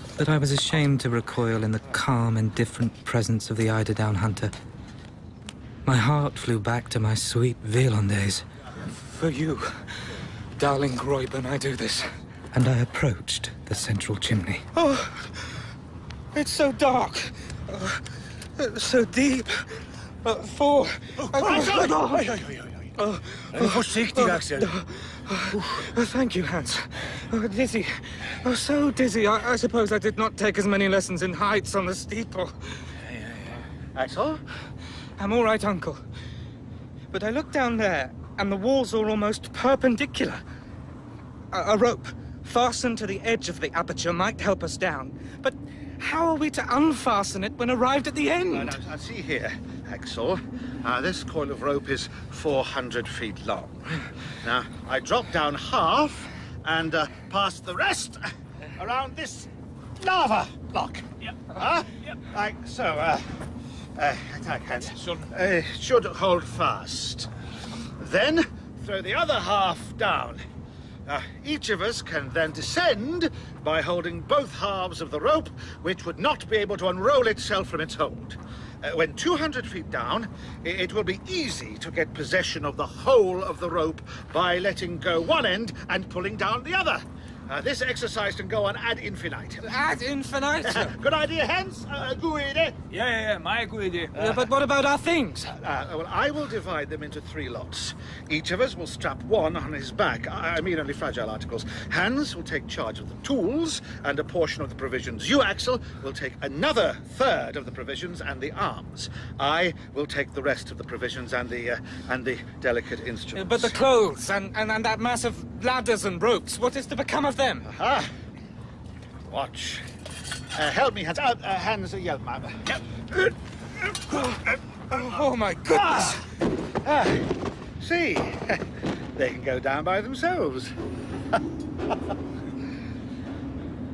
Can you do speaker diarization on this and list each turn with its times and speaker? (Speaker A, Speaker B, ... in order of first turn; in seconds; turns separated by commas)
Speaker A: 0.2-4.5, Speaker A: 5.8-8.4, Speaker B: 8.8-12.1, Speaker A: 12.5-14.7, Speaker B: 14.7-15.5, Speaker B: 16.3-18.0, Speaker B: 18.6-22.4, Speaker C: 21.2-22.9, Speaker D: 21.4-21.9, Speaker B: 23.0-32.9, Speaker C: 23.5-24.7, Speaker C: 33.0-33.6, Speaker D: 33.9-34.4, Speaker B: 35.2-36.0, Speaker B: 37.1-40.4, Speaker B: 41.5-48.8, Speaker D: 48.5-63.4, Speaker D: 63.9-67.3, Speaker C: 64.8-65.3, Speaker D: 68.0-70.4, Speaker D: 71.0-89.8, Speaker B: 89.6-91.0, Speaker D: 90.6-92.8, Speaker C: 92.9-94.3, Speaker B: 94.1-95.5, Speaker D: 94.2-94.5, Speaker D: 95.5-113.8, Speaker B: 113.3-117.7, Speaker D: 117.6-118.1, Speaker D: 119.3-119.9, Speaker D: 120.5-122.8, Speaker B: 124.1-126.2, Speaker D: 125.7-126.2, Speaker D: 126.8-130.8